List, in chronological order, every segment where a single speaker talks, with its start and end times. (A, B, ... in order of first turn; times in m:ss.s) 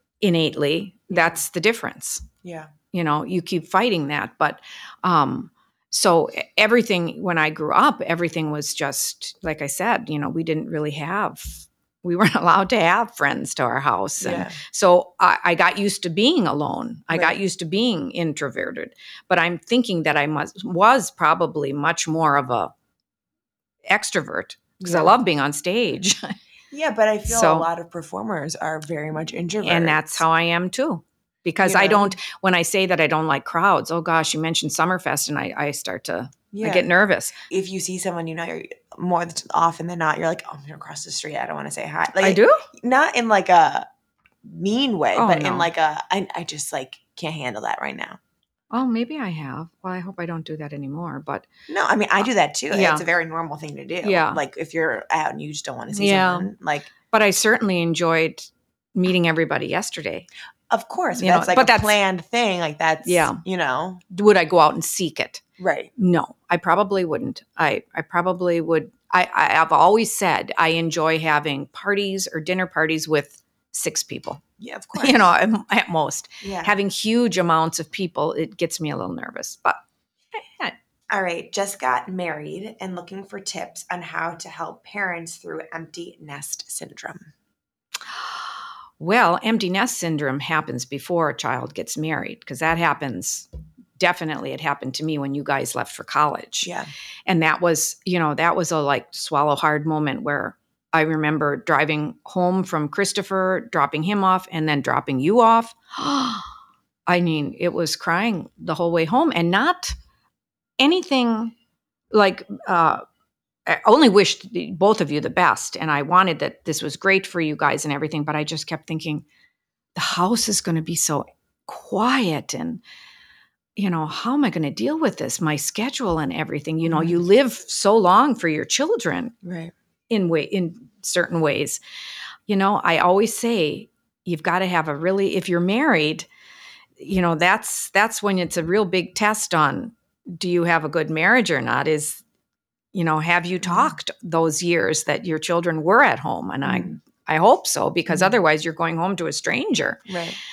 0:00.2-0:02.3 A
0:02.4-0:02.7 B
0:02.9-0:22.7 A
0:14.2-0:14.6 B
0:23.9-0:26.3 A
0:24.8-0:25.2 B
0:26.7-0:30.2 B
0:27.3-0:27.7 A
0:29.6-0:37.4 A
0:31.6-0:32.2 B
0:36.5-0:36.9 B
0:37.5-0:43.9 B
0:42.2-0:42.7 A
0:44.4-0:48.2 B
0:45.1-0:45.7 A
0:48.7-0:51.5 A
0:51.7-0:56.9 B
0:52.7-0:53.0 A
0:54.0-0:54.4 A
0:55.9-0:56.5 A
0:57.1-1:00.3 A
1:00.7-1:04.0 B
1:01.2-1:02.0 A
1:03.0-1:03.4 A
1:04.1-1:05.4 A
1:05.6-1:05.9 B
1:06.0-1:14.4 A
1:14.6-1:15.3 B
1:15.0-1:19.8 A
1:16.4-1:16.8 B
1:21.1-1:27.3 B
1:29.0-1:36.7 A
1:36.6-1:36.9 B
1:37.3-1:46.5 A
1:47.1-1:50.0 A
1:50.8-1:51.6 A
1:52.1-1:53.0 A
1:53.7-1:59.2 A
2:00.0-2:02.8 A
2:03.8-2:09.4 A
2:06.9-2:07.2 B
2:09.4-2:09.7 B
2:10.1-2:11.8 A
2:12.5-2:16.3 A
2:17.0-2:22.2 A
2:22.9-2:30.1 A
2:23.6-2:24.0 B
2:26.6-2:27.0 B
2:28.1-2:28.4 B
2:30.1-2:30.4 B